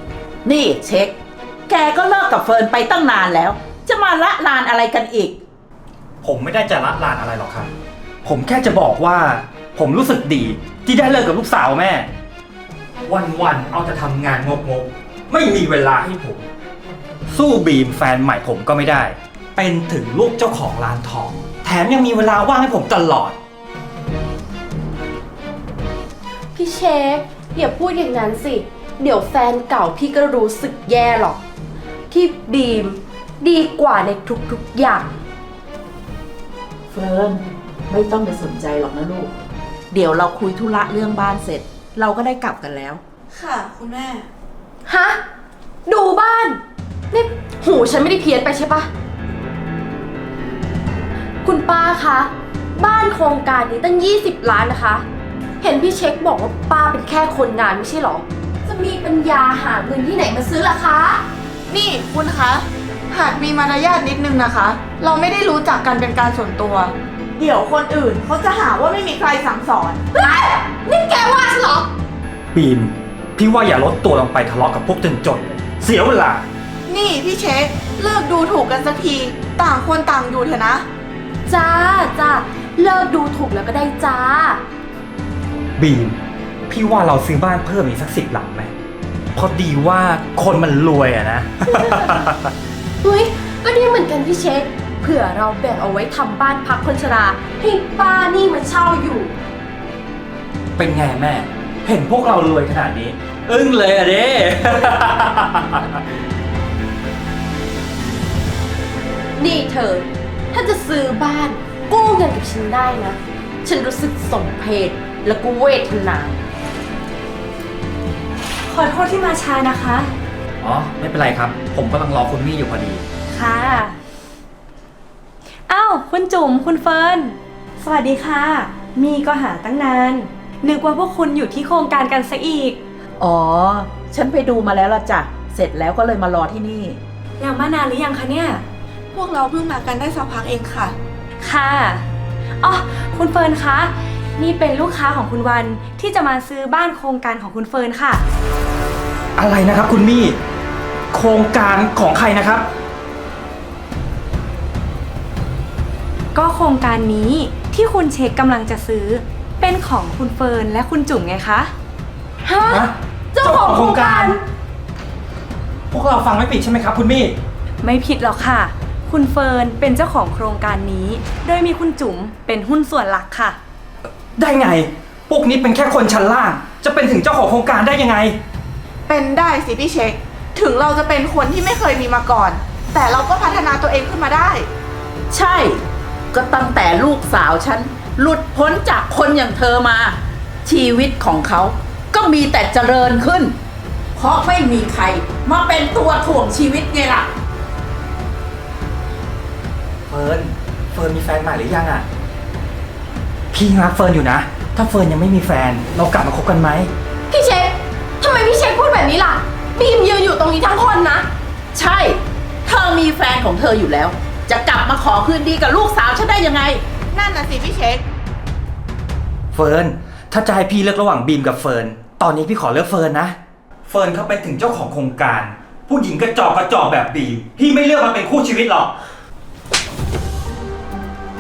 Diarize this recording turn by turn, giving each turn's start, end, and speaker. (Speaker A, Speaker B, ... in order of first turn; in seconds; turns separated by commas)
Speaker A: 0.5-1.2, Speaker A: 1.7-5.4, Speaker B: 6.2-7.7, Speaker B: 8.2-12.1, Speaker B: 13.1-16.4, Speaker B: 17.3-23.4, Speaker C: 26.6-31.4, Speaker C: 32.1-35.1, Speaker A: 36.9-39.3, Speaker A: 39.9-43.0, Speaker D: 43.3-44.3, Speaker C: 44.9-45.2, Speaker C: 45.9-46.6, Speaker C: 47.1-48.9, Speaker C: 51.4-55.0, Speaker C: 55.6-61.2, Speaker D: 61.7-70.0, Speaker C: 70.2-71.9, Speaker B: 72.5-76.4, Speaker D: 76.9-80.8, Speaker C: 81.5-84.6, Speaker B: 85.8-86.2, Speaker B: 86.7-88.7, Speaker B: 89.4-92.5, Speaker C: 91.7-92.2, Speaker C: 93.0-99.3, Speaker B: 100.8-106.0, Speaker C: 109.4-116.4, Speaker E: 118.7-120.1, Speaker B: 120.6-123.1, Speaker E: 123.3-124.0, Speaker E: 125.7-132.8, Speaker A: 133.2-137.0, Speaker E: 137.4-138.7, Speaker D: 139.1-141.0, Speaker E: 141.4-142.1, Speaker E: 142.6-148.2, Speaker B: 149.4-150.4, Speaker B: 151.1-152.7, Speaker E: 156.3-161.7, Speaker C: 162.4-164.4, Speaker B: 162.7-164.4, Speaker B: 165.9-167.4, Speaker E: 167.8-173.6, Speaker B: 174.4-178.4, Speaker D: 179.1-184.7, Speaker A: 185.3-193.6, Speaker A: 194.2-197.3, Speaker B: 200.1-202.1, Speaker B: 203.5-206.9, Speaker C: 207.3-211.3, Speaker A: 211.7-216.8, Speaker D: 217.1-218.0, Speaker B: 219.5-228.9